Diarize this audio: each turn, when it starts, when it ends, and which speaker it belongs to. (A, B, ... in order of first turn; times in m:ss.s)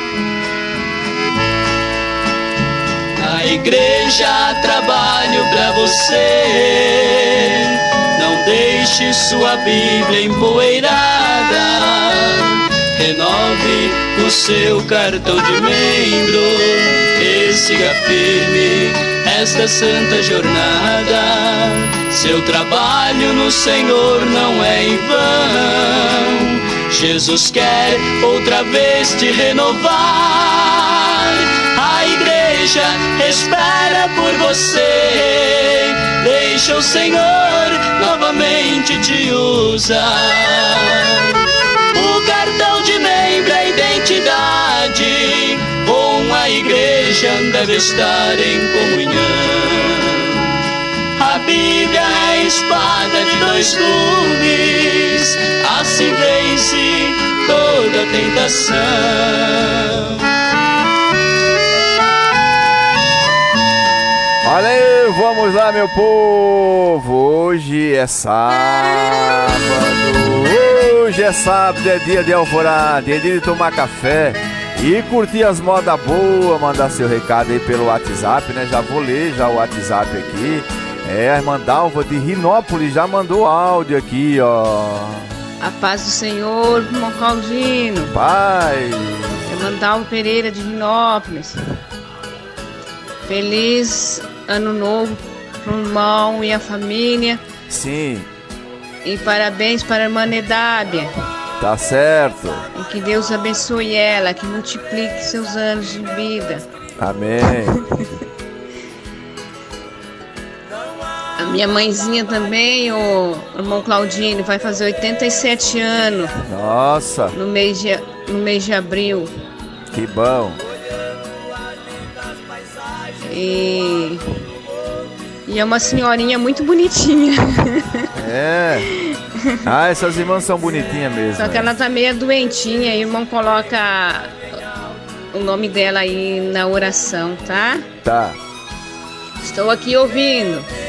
0:03.2-0:41.3 A
0:41.9-0:50.4 A
0:51.2-1:00.2 A
1:04.4-1:25.3 B
1:25.6-1:28.1 C
1:28.1-1:29.4 B
1:29.5-1:31.6 C
1:33.3-1:37.4 C
1:37.7-1:38.3 B
1:39.0-1:41.1 C
1:41.6-1:42.6 B
1:42.8-1:46.6 C
1:47.0-1:47.8 B
1:51.4-1:56.4 C
1:56.5-1:57.3 B
1:57.3-1:59.3 C
1:59.9-2:00.6 B
2:03.2-2:04.2 C
2:05.5-2:08.1 C
2:08.2-2:08.9 B
2:09.6-2:11.7 B
2:11.4-2:14.4 C
2:15.3-2:17.9 C
2:18.0-2:18.4 B
2:19.4-2:20.7 C